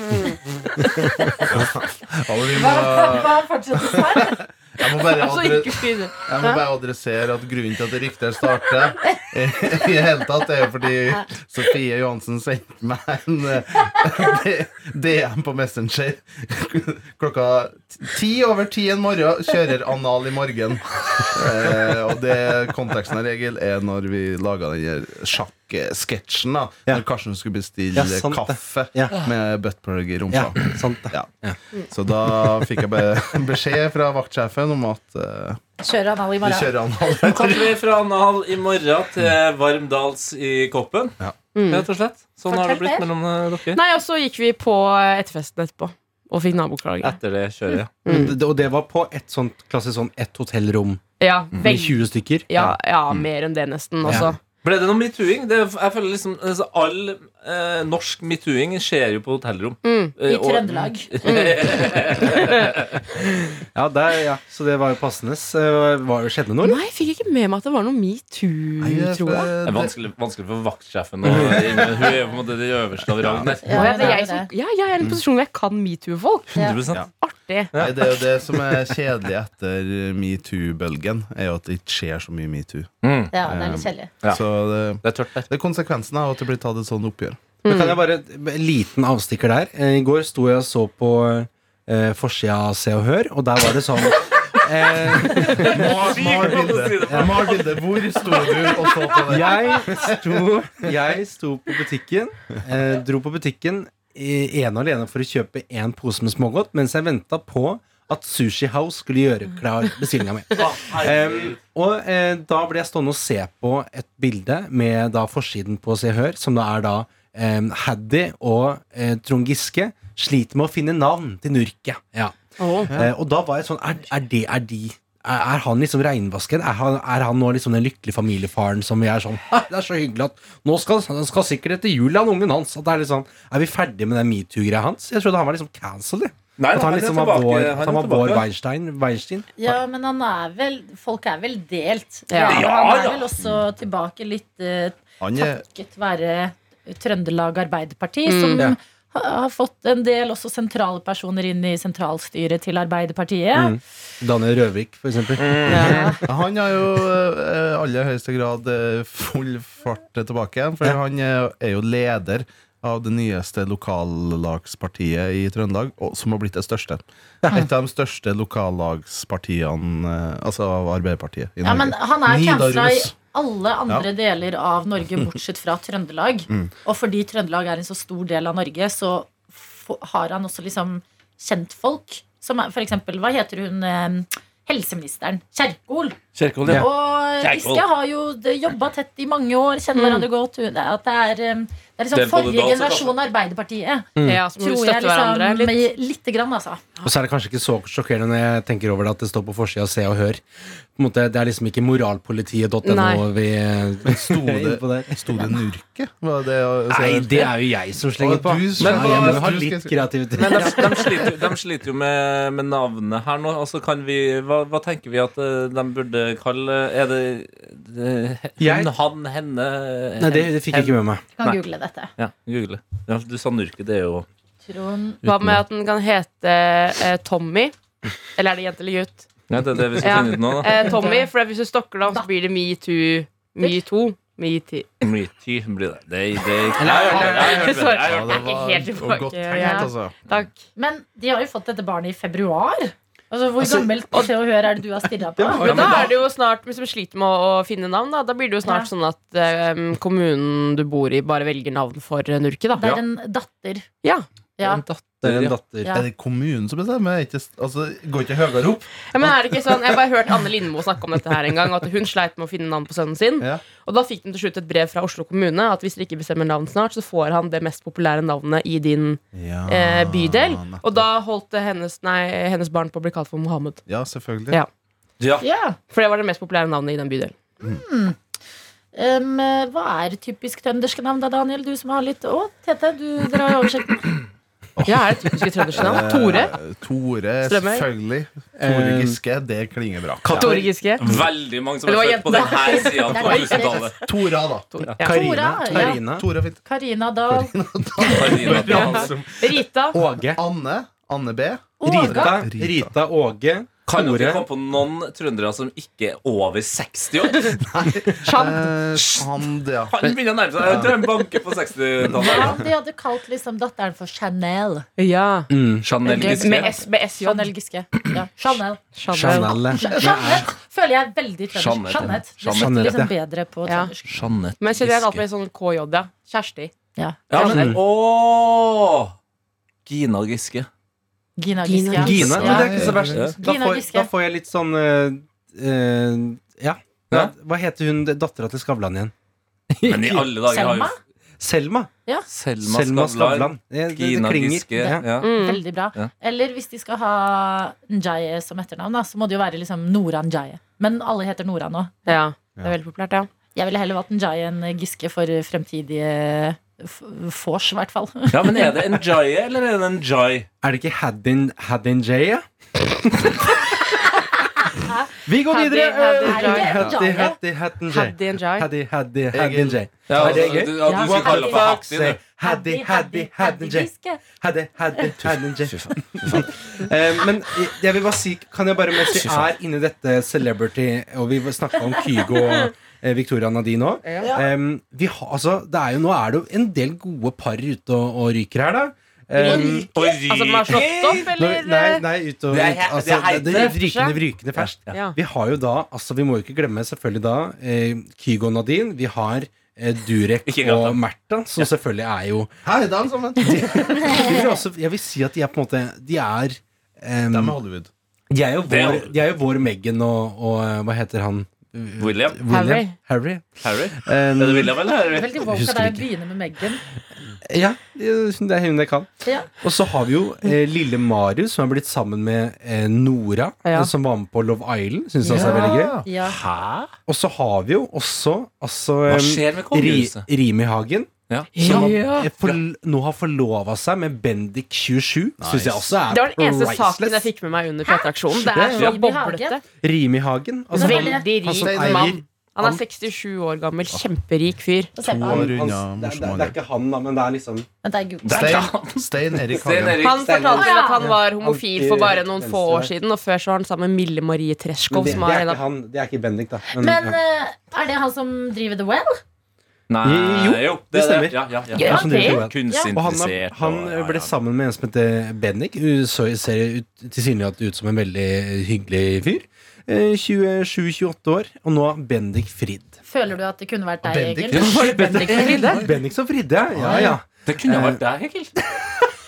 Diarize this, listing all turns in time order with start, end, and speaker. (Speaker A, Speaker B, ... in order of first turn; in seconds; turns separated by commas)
Speaker A: 1.0-1.4, Speaker B: 1.4-31.3, Speaker A: 2.5-4.4, Speaker C: 5.1-6.6, Speaker D: 27.9-29.2, Speaker D: 30.3-31.6, Speaker B: 31.9-35.6, Speaker A: 35.8-37.4, Speaker B: 36.4-37.7, Speaker E: 37.2-41.2, Speaker C: 41.5-41.9, Speaker E: 41.7-43.8, Speaker A: 42.5-43.1, Speaker C: 43.7-47.2, Speaker E: 47.0-47.9, Speaker C: 48.0-48.4, Speaker D: 48.0-51.0, Speaker C: 51.2-54.4, Speaker D: 51.6-52.7, Speaker D: 54.0-54.3, Speaker E: 54.6-63.0, Speaker C: 59.8-60.1, Speaker A: 60.2-61.1, Speaker C: 61.2-62.6, Speaker D: 63.7-66.8, Speaker C: 66.6-69.5, Speaker B: 68.8-69.9, Speaker E: 69.6-74.2, Speaker D: 71.2-71.8, Speaker B: 71.3-71.6, Speaker B: 73.1-73.6, Speaker A: 73.6-74.5, Speaker C: 73.7-77.7, Speaker A: 76.5-76.8, Speaker E: 76.5-77.0, Speaker E: 77.7-78.2, Speaker B: 77.8-82.9, Speaker E: 83.0-83.3, Speaker A: 83.3-84.1, Speaker B: 83.4-87.5, Speaker E: 85.0-85.5, Speaker C: 87.6-88.0, Speaker D: 87.6-97.6, Speaker E: 95.2-98.8, Speaker B: 95.3-100.4, Speaker D: 99.3-139.8, Speaker E: 110.5-111.6, Speaker C: 122.6-122.9, Speaker E: 136.6-138.5, Speaker A: 139.6-153.8, Speaker C: 142.3-142.6, Speaker E: 142.5-143.3, Speaker B: 145.2-145.6, Speaker C: 148.2-148.7, Speaker D: 153.5-156.1, Speaker E: 155.4-156.0, Speaker C: 155.7-156.2, Speaker A: 155.8-156.2, Speaker B: 156.2-173.1, Speaker D: 167.4-167.7, Speaker A: 171.6-186.2, Speaker E: 186.3-187.8, Speaker A: 186.7-196.8, Speaker C: 189.9-190.3, Speaker E: 192.1-193.1, Speaker D: 194.2-194.4, Speaker C: 194.2-195.8, Speaker D: 197.0-200.4, Speaker D: 200.9-205.5, Speaker C: 202.8-203.2, Speaker B: 204.0-207.5, Speaker D: 206.9-211.2, Speaker B: 208.2-210.6, Speaker E: 208.8-209.6, Speaker E: 210.4-221.6, Speaker D: 218.6-218.9, Speaker D: 220.2-221.2, Speaker A: 221.4-222.1, Speaker E: 222.2-224.3, Speaker A: 224.7-225.2, Speaker C: 225.2-227.7, Speaker D: 225.2-225.6, Speaker C: 228.3-229.2, Speaker E: 229.5-230.9, Speaker C: 230.0-234.9, Speaker A: 230.8-231.3, Speaker E: 235.0-238.4, Speaker D: 236.8-237.8, Speaker C: 236.9-240.6, Speaker B: 237.0-240.2, Speaker A: 239.6-239.9, Speaker A: 240.8-245.8, Speaker D: 245.4-246.1, Speaker C: 245.6-252.9, Speaker E: 245.7-246.0, Speaker A: 248.6-248.9, Speaker A: 252.7-253.9, Speaker A: 254.6-254.8, Speaker E: 254.6-255.6, Speaker D: 255.2-256.0, Speaker B: 255.9-258.9, Speaker C: 259.1-273.8, Speaker B: 263.4-263.6, Speaker B: 269.3-271.1, Speaker B: 273.9-274.6, Speaker A: 275.4-275.8, Speaker C: 275.9-277.3, Speaker A: 277.6-278.2, Speaker A: 278.9-284.1, Speaker B: 284.8-285.1, Speaker C: 284.9-286.6, Speaker B: 285.7-290.7, Speaker C: 287.4-287.9, Speaker D: 288.6-289.2, Speaker D: 290.2-291.2, Speaker C: 290.3-291.1, Speaker E: 291.0-293.9, Speaker C: 291.8-294.1, Speaker A: 292.3-293.9, Speaker B: 294.0-294.7, Speaker C: 294.7-295.1, Speaker D: 295.0-296.3, Speaker A: 295.0-296.0, Speaker B: 295.7-296.6, Speaker A: 296.6-297.5, Speaker B: 297.3-299.2, Speaker E: 298.0-299.1, Speaker D: 298.4-300.4, Speaker C: 298.6-300.0, Speaker B: 300.3-302.9, Speaker A: 301.8-302.4, Speaker D: 301.8-304.5, Speaker E: 303.9-307.6, Speaker B: 307.6-309.9, Speaker C: 308.2-308.7, Speaker E: 308.9-309.3, Speaker E: 309.9-312.6, Speaker B: 310.6-310.9, Speaker A: 312.1-314.9, Speaker C: 315.0-315.5, Speaker D: 315.5-315.8, Speaker E: 315.8-316.7, Speaker A: 316.0-324.2, Speaker C: 316.1-317.5, Speaker C: 318.9-319.7, Speaker D: 319.1-320.5, Speaker B: 319.8-320.3, Speaker E: 321.5-322.9, Speaker D: 322.4-323.1, Speaker C: 323.6-323.9, Speaker E: 324.1-325.2, Speaker C: 324.6-326.7, Speaker A: 327.0-327.4, Speaker E: 327.3-329.1, Speaker C: 327.3-327.7, Speaker D: 327.4-327.8, Speaker E: 329.9-330.7, Speaker A: 331.4-334.1, Speaker C: 331.6-332.6, Speaker D: 331.9-339.1, Speaker B: 332.3-333.2, Speaker E: 333.0-333.3, Speaker D: 339.7-340.3, Speaker E: 339.8-340.9, Speaker A: 340.5-340.9, Speaker D: 341.4-341.9, Speaker E: 342.3-345.3, Speaker D: 342.6-345.0, Speaker A: 344.8-352.2, Speaker C: 345.2-345.6, Speaker C: 352.1-353.3, Speaker A: 353.5-358.8, Speaker E: 358.3-360.5, Speaker D: 360.6-363.6, Speaker A: 364.7-365.1, Speaker D: 365.2-389.9, Speaker C: 365.5-366.9, Speaker A: 366.2-367.4, Speaker C: 367.9-368.7, Speaker B: 369.3-370.7, Speaker E: 370.1-372.2, Speaker A: 370.8-371.8, Speaker A: 372.4-374.2, Speaker E: 375.2-376.5, Speaker E: 379.1-379.5, Speaker C: 384.0-384.3, Speaker C: 389.4-392.0, Speaker E: 389.4-391.3, Speaker D: 391.3-402.5, Speaker E: 392.5-393.8, Speaker C: 393.5-394.2, Speaker C: 394.9-395.1, Speaker E: 400.4-401.0, Speaker B: 402.6-404.2, Speaker D: 403.4-407.6, Speaker B: 407.3-407.9, Speaker D: 408.3-414.9, Speaker E: 408.7-409.1, Speaker E: 412.0-412.4, Speaker C: 412.5-412.9, Speaker E: 413.6-415.4, Speaker A: 415.1-416.8, Speaker D: 415.4-416.1, Speaker D: 417.4-426.0, Speaker A: 419.2-419.5, Speaker C: 423.6-423.9, Speaker A: 425.3-426.4, Speaker E: 425.5-426.9, Speaker D: 427.1-437.3, Speaker E: 429.1-430.2, Speaker E: 431.3-432.6, Speaker C: 431.5-432.3, Speaker B: 435.4-436.0, Speaker C: 436.1-439.6, Speaker D: 438.4-438.9, Speaker A: 438.7-439.6, Speaker D: 439.8-442.8, Speaker C: 440.7-444.9, Speaker A: 440.7-441.3, Speaker B: 441.5-442.2, Speaker A: 444.9-445.5, Speaker B: 445.0-446.6, Speaker D: 445.1-447.7, Speaker A: 447.8-448.7, Speaker E: 448.2-450.5, Speaker B: 448.3-450.1, Speaker C: 450.0-455.6, Speaker D: 450.2-452.9, Speaker A: 450.5-451.1, Speaker D: 454.9-457.2, Speaker A: 456.7-459.2, Speaker E: 459.9-464.3, Speaker D: 460.0-473.0, Speaker C: 461.7-462.4, Speaker A: 461.8-462.9, Speaker A: 473.0-475.5, Speaker B: 474.0-474.7, Speaker E: 474.5-475.2, Speaker C: 474.5-475.8, Speaker D: 474.6-478.0, Speaker B: 475.6-475.9, Speaker B: 476.8-477.0, Speaker A: 476.8-477.1, Speaker E: 477.4-478.6